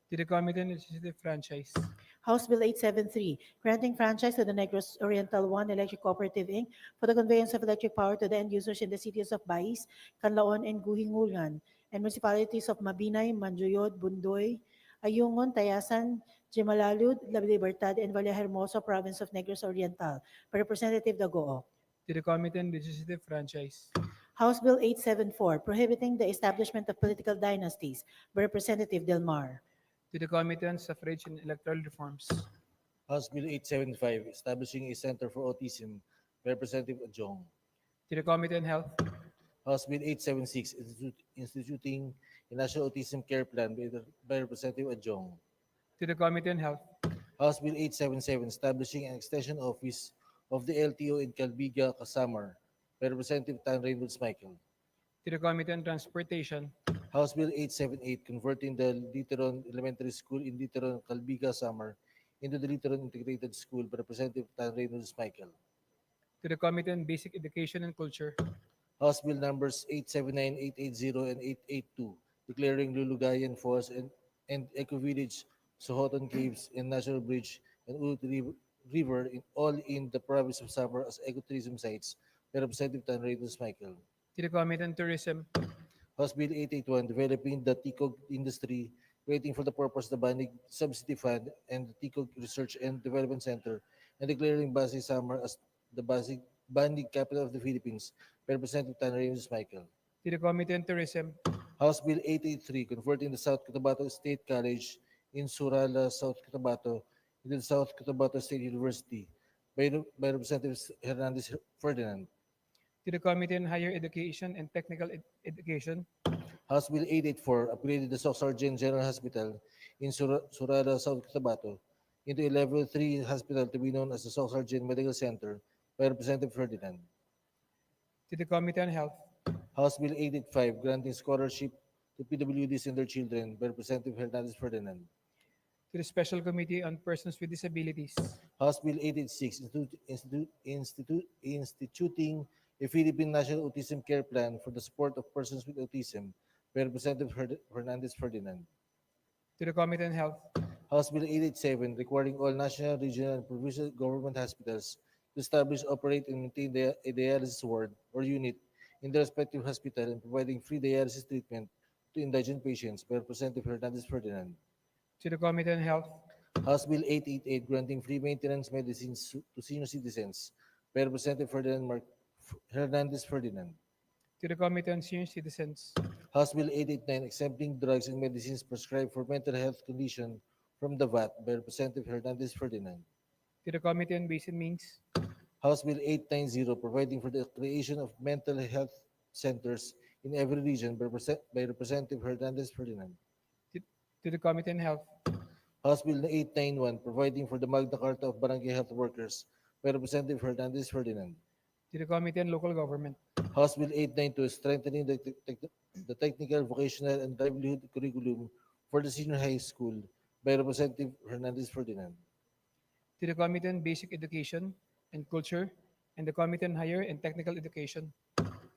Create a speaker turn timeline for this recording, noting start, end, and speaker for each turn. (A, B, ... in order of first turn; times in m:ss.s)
0:00.1-0:01.9 A
0:02.2-0:21.6 B
0:22.1-0:23.9 A
0:24.4-0:29.6 B
0:30.1-0:32.5 A
0:33.1-0:37.5 C
0:38.1-0:39.0 A
0:39.6-0:45.4 C
0:46.0-0:46.8 A
0:47.4-0:54.6 C
0:55.2-0:56.7 A
0:57.1-1:05.5 C
1:06.4-1:08.4 A
1:09.0-1:24.0 C
1:24.4-1:25.5 A
1:26.2-1:39.9 C
1:40.2-1:41.4 A
1:41.8-1:52.3 C
1:53.0-1:56.1 A
1:56.7-2:07.0 C
2:08.3-2:09.2 A
2:09.7-2:15.1 C
2:15.9-2:18.4 A
2:18.6-2:28.7 C
2:29.6-2:30.4 A
2:30.9-2:44.6 C
2:45.2-2:46.2 A
2:46.5-2:53.8 C
2:54.4-2:56.0 A
2:56.3-3:03.0 C
3:03.6-3:05.0 A
3:05.6-3:13.2 C
3:13.7-3:15.1 A
3:15.8-3:21.4 C
3:21.9-3:23.2 A
3:23.4-3:32.2 C
3:33.2-3:38.1 A